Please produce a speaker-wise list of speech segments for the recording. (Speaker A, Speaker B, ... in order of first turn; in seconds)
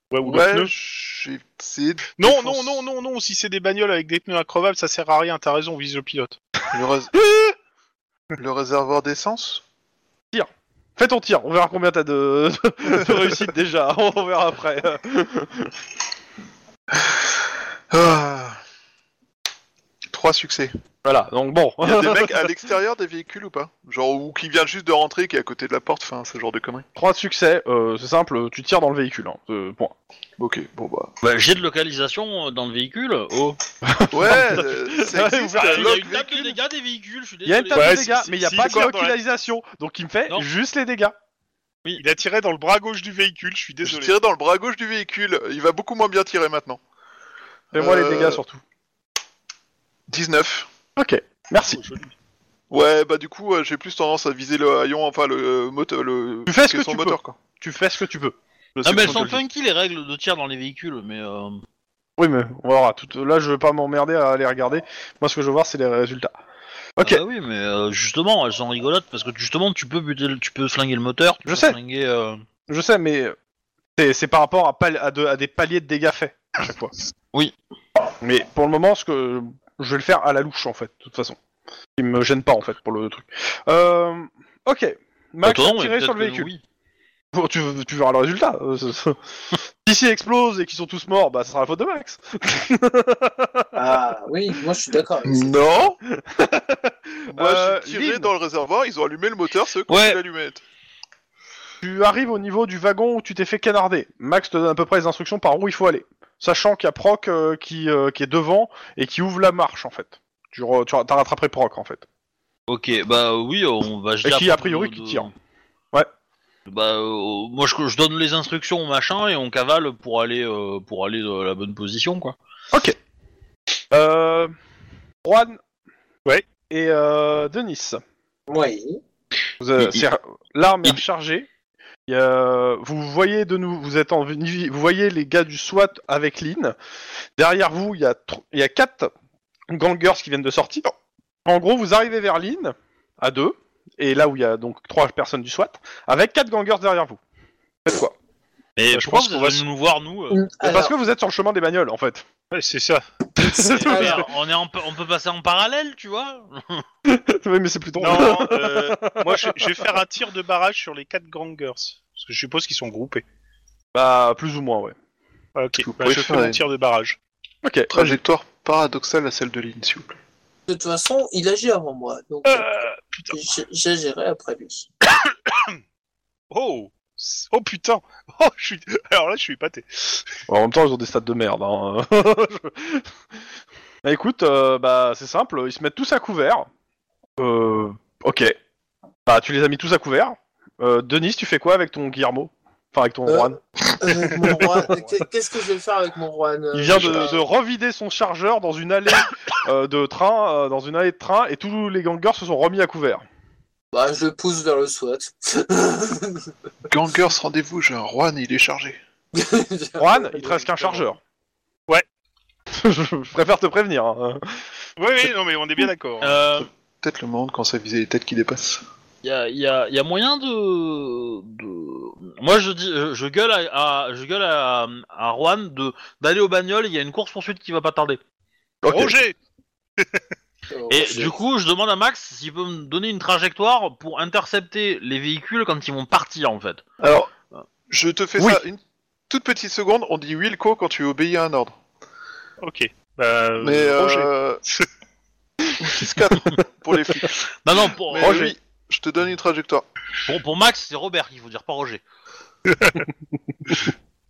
Speaker A: 0.1-0.7, 2.2-6.4, 37.8-39.2, 42.0-44.1, 51.7-52.1, 148.9-149.6, 152.5-153.0, 158.0-163.2, 165.6-167.2, 172.5-173.4, 175.2-175.8, 176.5-180.2, 215.0-216.4, 228.9-229.3, 242.6-244.9, 252.7-253.0
Speaker B: 0.2-2.8, 6.7-7.3, 8.3-9.6, 16.9-17.2, 17.9-18.6, 20.1-20.7, 21.8-26.9, 30.4-31.1, 34.1-36.5, 43.8-46.8, 47.8-48.4, 50.1-50.7, 52.7-57.4, 58.8-59.4, 95.3-96.0, 97.3-100.6, 165.8-166.6, 167.9-170.2, 196.9-197.3, 206.9-209.0, 217.0-218.8, 237.0-237.3, 237.9-241.8, 243.6-244.6, 245.8-247.3, 248.1-249.9
Speaker C: 10.3-15.7, 21.0-22.5, 27.0-29.9, 33.9-36.5, 37.5-41.1, 47.7-48.6, 51.0-51.8, 56.5-58.4, 62.2-66.3, 67.0-67.2, 71.5-71.8, 72.7-73.3, 74.0-76.9, 78.2-81.4, 82.0-86.5, 87.3-89.2, 89.8-93.8, 96.1-98.3, 101.8-112.0, 114.2-115.3, 122.7-123.0, 123.9-124.5, 125.2-125.6, 126.7-128.0, 129.6-131.5, 132.1-136.8, 137.4-139.1, 139.7-140.9, 141.4-147.2, 147.8-148.2, 150.6-152.2, 153.4-154.3, 157.1-159.9, 163.9-164.9, 167.6-168.2, 180.5-183.1, 184.0-186.7, 187.4-188.6, 189.3-193.6, 196.7-203.2, 210.0-211.2, 212.7-214.6, 228.8-229.2, 248.2-248.6
Speaker D: 31.2-33.6, 35.5-38.5, 58.8-61.6, 67.0-72.4, 85.4-86.6, 99.9-100.2, 112.7-115.3, 116.7-122.4, 129.8-130.1, 148.8-150.4, 153.5-156.8, 216.2-216.7, 219.2-228.2, 230.9-236.8, 247.3-248.5, 250.2-252.0
Speaker E: 93.8-95.6, 128.5-129.0, 150.3-150.9, 153.6-154.3, 170.7-174.9, 193.3-197.4, 203.9-206.5, 209.3-210.7, 230.7-231.4